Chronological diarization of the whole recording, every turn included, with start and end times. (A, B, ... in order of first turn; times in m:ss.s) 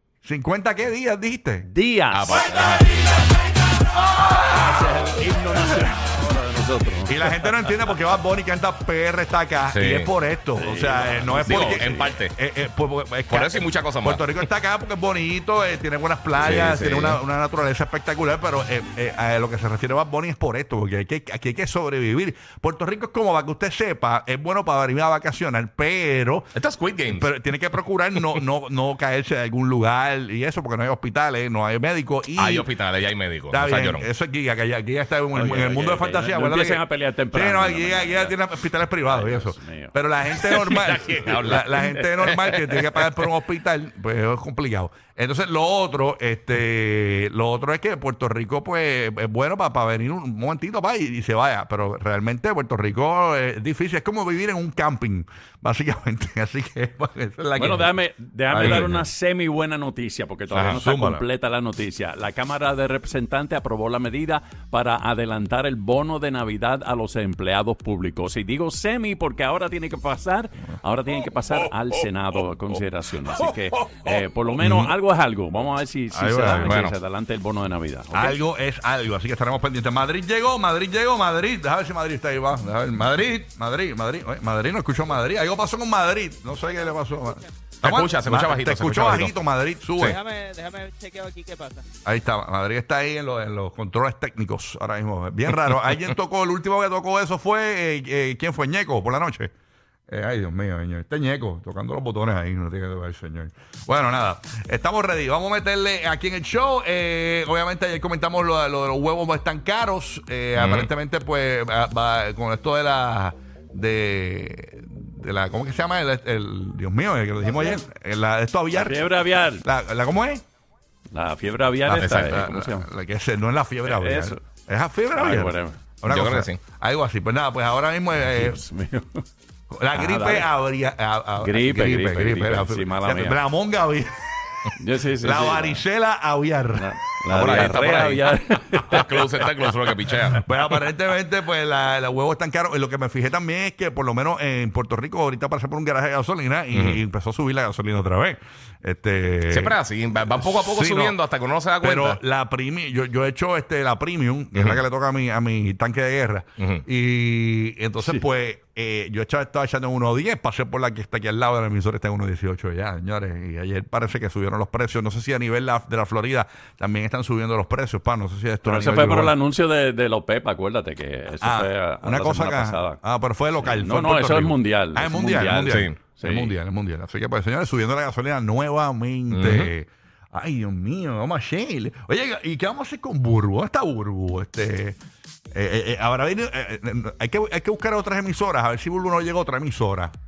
0:00.2-0:01.7 A
0:01.6-0:02.5 B
0:02.1-0:02.8 C
0:04.3-0:07.9 B
0:07.1-0:26.5 A
0:09.7-0:10.1 C
0:10.5-0:12.2 B
0:11.4-0:12.4 C
0:13.3-0:14.4 C
0:16.4-0:17.2 C
0:26.5-0:27.4 C
0:27.1-0:32.7 A
0:32.3-0:34.1 C
0:33.5-0:57.9 A
0:35.3-0:40.0 B
0:40.3-0:43.2 C
0:57.6-1:18.4 B
0:58.5-0:59.1 A
1:00.5-1:01.2 A
1:13.4-1:14.0 C
1:14.6-1:14.9 A
1:16.1-1:16.7 A
1:16.6-1:17.0 C
1:18.1-1:30.2 A
1:26.6-1:27.4 D
1:27.8-1:29.4 C
1:30.2-1:31.8 D
1:32.0-1:39.5 A
1:40.1-2:00.4 A
1:50.5-1:50.9 C
1:58.7-1:59.6 B
2:01.1-2:02.9 B
2:01.9-2:02.3 C
2:02.1-2:08.6 A
2:03.8-2:04.4 B
2:05.1-2:05.8 B
2:06.0-2:06.6 C
2:08.2-2:09.2 B
2:09.7-2:14.1 A
2:09.9-2:10.5 B
2:11.4-2:13.4 B
2:14.8-2:15.8 B
2:15.2-2:18.0 A
2:16.7-2:20.1 B
2:17.5-2:18.3 C
2:18.9-2:20.4 C
2:20.3-2:29.8 A
2:26.7-2:27.0 C
2:29.5-2:32.2 C
2:30.3-2:31.2 A
2:31.8-2:49.4 A
2:34.5-2:34.8 C
2:36.6-2:36.8 C
2:48.6-2:53.0 B
2:51.4-3:05.0 A
2:53.6-2:56.6 B
2:55.6-2:56.0 C
2:59.3-2:59.7 C
3:05.5-3:10.1 A